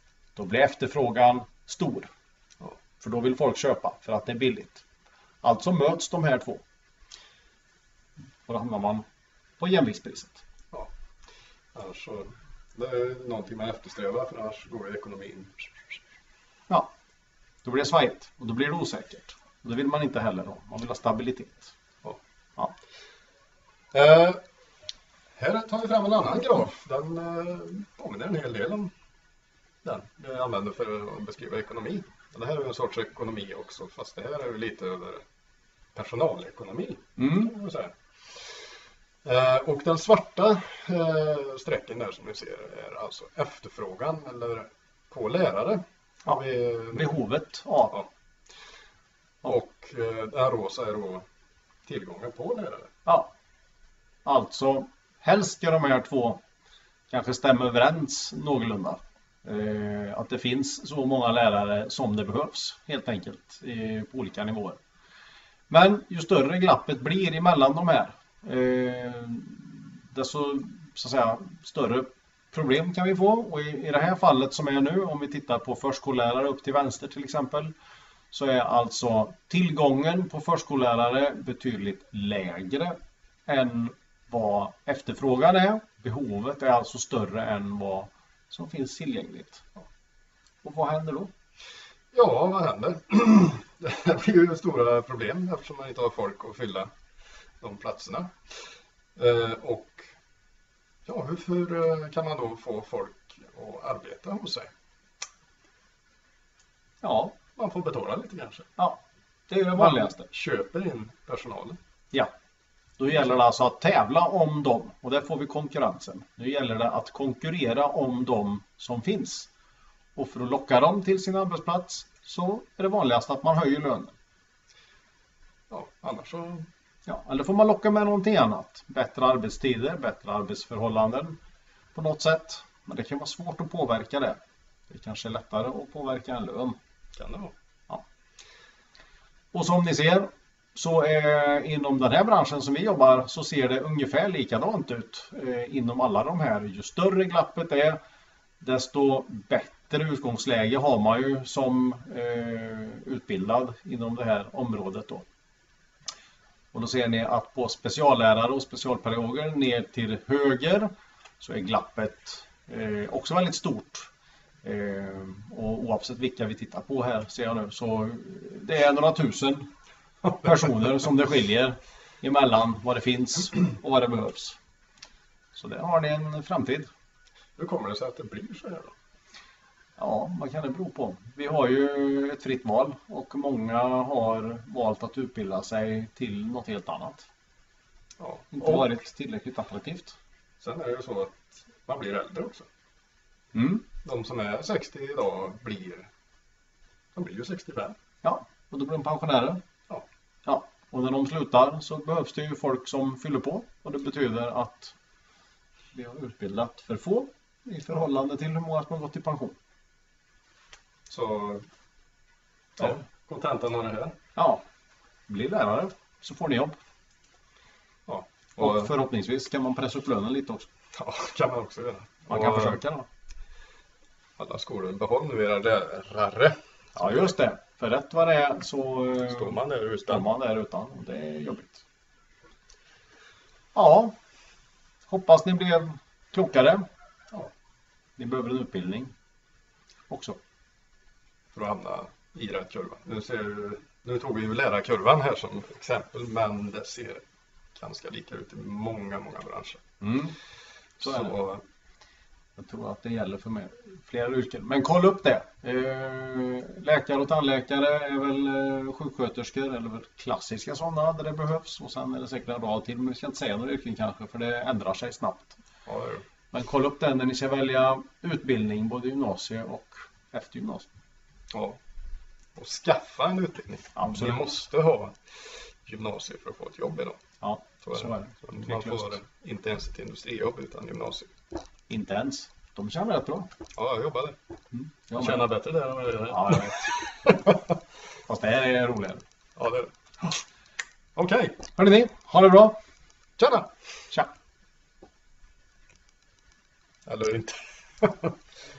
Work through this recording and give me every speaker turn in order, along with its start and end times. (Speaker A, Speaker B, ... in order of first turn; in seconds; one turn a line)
Speaker A: 0.3-2.1
Speaker A: 3.0-4.8
Speaker A: 5.4-6.6
Speaker A: 8.4-9.0
Speaker A: 9.6-10.4
Speaker B: 11.7-15.9
Speaker A: 17.6-21.7
Speaker B: 23.9-24.4
Speaker B: 25.4-28.9
Speaker B: 29.8-35.2
Speaker B: 35.9-37.9
Speaker A: 37.2-37.5
Speaker B: 39.2-47.1
Speaker A: 46.9-48.0
Speaker B: 49.4-51.2
Speaker B: 51.9-52.9
Speaker A: 53.0-53.3
Speaker A: 54.2-56.4
Speaker A: 57.1-64.8
Speaker A: 65.7-77.7
Speaker A: 78.3-89.7
Speaker A: 90.6-91.3
Speaker B: 92.1-96.9
Speaker B: 97.6-98.3
Speaker B: 99.2-100.0
Speaker B: 101.0-104.7
Speaker A: 107.0-107.3
Speaker B: 107.5-108.7
Speaker A: 108.8-110.3
Speaker B: 109.8-111.8
Speaker A: 113.0-119.5
Speaker A: 120.2-124.1
Speaker B: 125.7-126.7
Speaker A: 127.0-131.4
Speaker A: 131.9-134.4
Speaker A: 134.9-136.8
Speaker B: 137.2-137.5
Speaker A: 139.5-148.0
Speaker A: 148.6-155.2
Speaker A: 156.7-160.9
Speaker A: 161.4-164.1
Speaker A: 164.6-169.7
Speaker A: 170.3-174.6
Speaker A: 175.5-176.9
Speaker B: 177.6-178.9
Speaker A: 180.0-187.3
Speaker B: 188.2-188.9
Speaker A: 188.5-190.2
Speaker B: 190.6-192.7
Speaker A: 193.5-193.8
Speaker B: 194.0-196.1
Speaker B: 197.1-197.9
Speaker A: 198.2-199.6
Speaker A: 200.4-204.9
Speaker A: 205.9-209.5
Speaker B: 211.1-211.6
Speaker B: 212.8-214.1
Speaker A: 214.3-214.6
Speaker A: 215.3-216.8
Speaker B: 218.1-218.9
Speaker A: 218.6-220.7
Speaker B: 220.9-222.8
Speaker A: 222.3-223.1
Speaker B: 224.4-227.3
Speaker A: 226.9-231.8
Speaker B: 229.3-230.2
Speaker A: 233.7-234.1
Speaker A: 235.1-236.8
Speaker A: 238.2-239.1
Speaker A: 240.1-240.4
Speaker B: 241.5-247.2
Speaker B: 247.7-249.8
Speaker A: 250.0-250.3
Speaker B: 251.0-251.6
Speaker A: 251.0-251.3
Speaker A: 252.6-265.6
Speaker B: 265.9-266.2
Speaker A: 266.5-270.9
Speaker B: 271.5-271.8
Speaker B: 272.6-275.2
Speaker A: 273.9-274.6
Speaker B: 275.8-277.2
Speaker A: 277.4-279.1
Speaker B: 277.8-281.3
Speaker A: 281.9-283.5
Speaker B: 283.7-284.4
Speaker A: 284.7-285.5
Speaker B: 285.1-287.4
Speaker A: 286.3-286.8
Speaker A: 288.3-289.2
Speaker B: 289.6-290.4
Speaker B: 291.1-291.6
Speaker A: 291.8-292.8
Speaker B: 293.4-293.7
Speaker B: 297.1-298.3